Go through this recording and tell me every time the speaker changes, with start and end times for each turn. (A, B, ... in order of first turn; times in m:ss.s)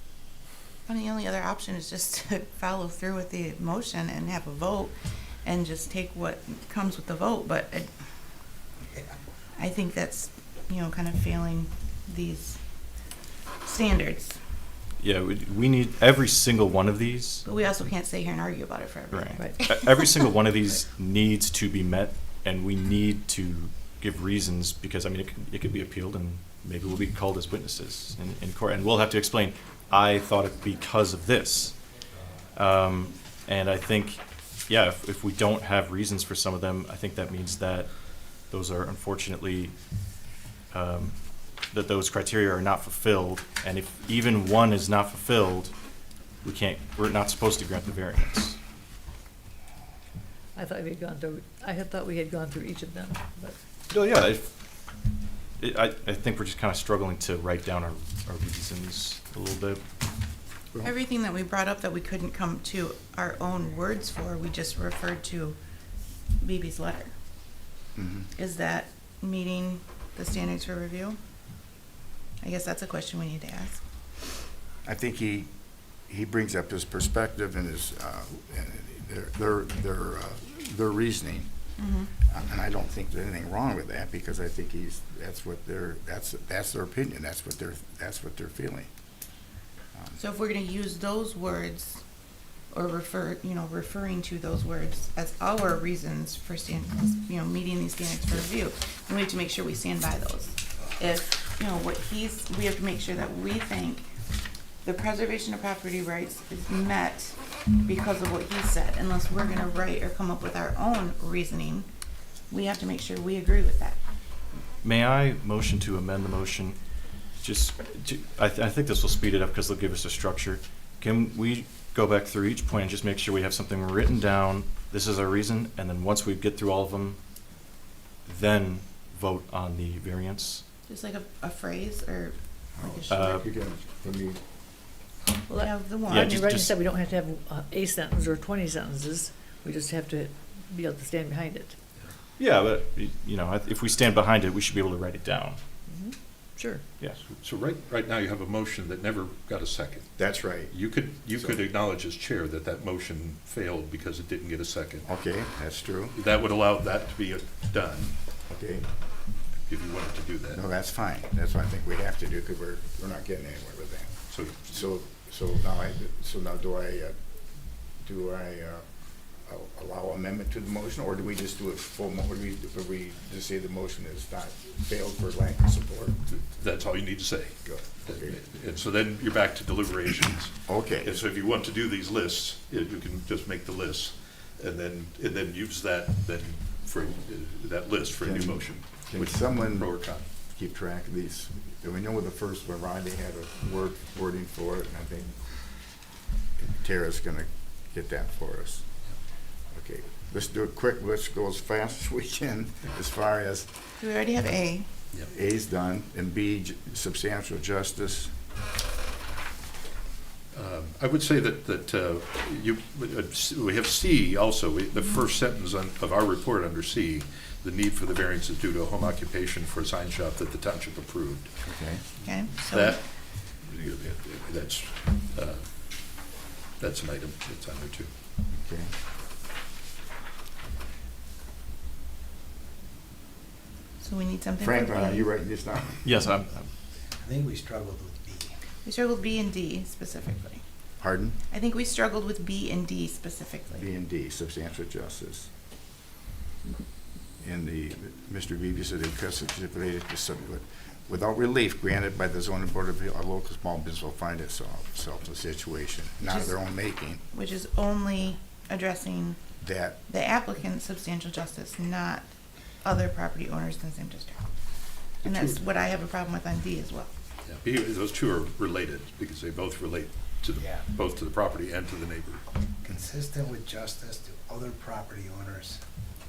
0:00.8-0:04.9 A
0:05.4-0:07.9 A
0:09.6-0:12.6 A
0:13.6-0:14.4 A
0:15.0-0:17.4 B
0:17.4-0:20.2 A
0:19.1-0:31.8 B
0:19.4-0:19.6 C
0:32.5-0:39.7 B
0:40.7-0:45.7 B
0:46.4-0:48.6 B
0:50.5-0:53.6 C
0:53.9-0:54.5 B
0:55.6-0:59.8 B
1:00.8-1:05.6 A
1:06.4-1:07.1 A
1:08.0-1:08.3 D
1:08.4-1:11.2 A
1:12.4-1:13.8 A
1:14.8-1:15.5 D
1:16.1-1:21.5 D
1:21.8-1:22.1 A
1:22.2-1:28.9 D
1:30.2-1:32.0 A
1:32.7-1:44.1 A
1:44.8-1:51.9 A
1:52.5-1:54.0 A
1:54.8-1:56.8 B
1:57.3-2:07.2 B
2:08.2-2:10.6 B
2:10.9-2:13.4 A
2:12.8-2:14.4 D
2:13.1-2:13.4 B
2:15.5-2:21.8 C
2:15.5-2:16.4 A
2:16.0-2:16.7 B
2:22.4-2:25.6 B
2:25.9-2:26.8 C
2:27.3-2:30.1 E
2:30.2-2:30.7 D
2:30.7-2:35.1 E
2:35.0-2:36.2 D
2:36.1-2:38.2 E
2:38.5-2:38.9 D
2:39.7-2:40.6 E
2:40.5-2:47.2 D
2:44.3-2:44.8 E
2:48.0-2:48.8 D
2:49.4-2:56.2 D
2:56.3-3:10.2 E
2:57.6-2:58.4 D
3:00.6-3:01.2 D
3:08.2-3:09.9 D
3:10.5-3:15.5 D
3:16.6-3:18.8 D
3:19.7-3:23.8 D
3:24.0-3:24.9 A
3:25.2-3:28.3 D
3:30.5-3:41.5 E
3:41.6-3:42.0 D
3:42.2-3:43.0 A
3:42.7-3:46.2 E
3:46.8-3:48.1 E
3:48.5-3:48.9 D
3:54.0-3:55.3 A
3:54.6-3:56.1 D
3:56.0-3:56.7 B
3:57.2-3:58.6 F
3:58.8-4:00.6 A
4:01.0-4:01.4 D
4:01.5-4:03.8 A
4:03.7-4:05.5 D
4:07.4-4:17.2 D
4:16.3-4:16.6 A
4:17.3-4:19.4 A
4:19.6-4:20.0 D
4:20.1-4:22.3 A
4:22.8-4:24.4 A
4:25.2-4:25.6 E
4:25.2-4:27.1 A
4:27.4-4:32.4 E
4:30.6-4:30.9 F
4:32.8-4:35.8 F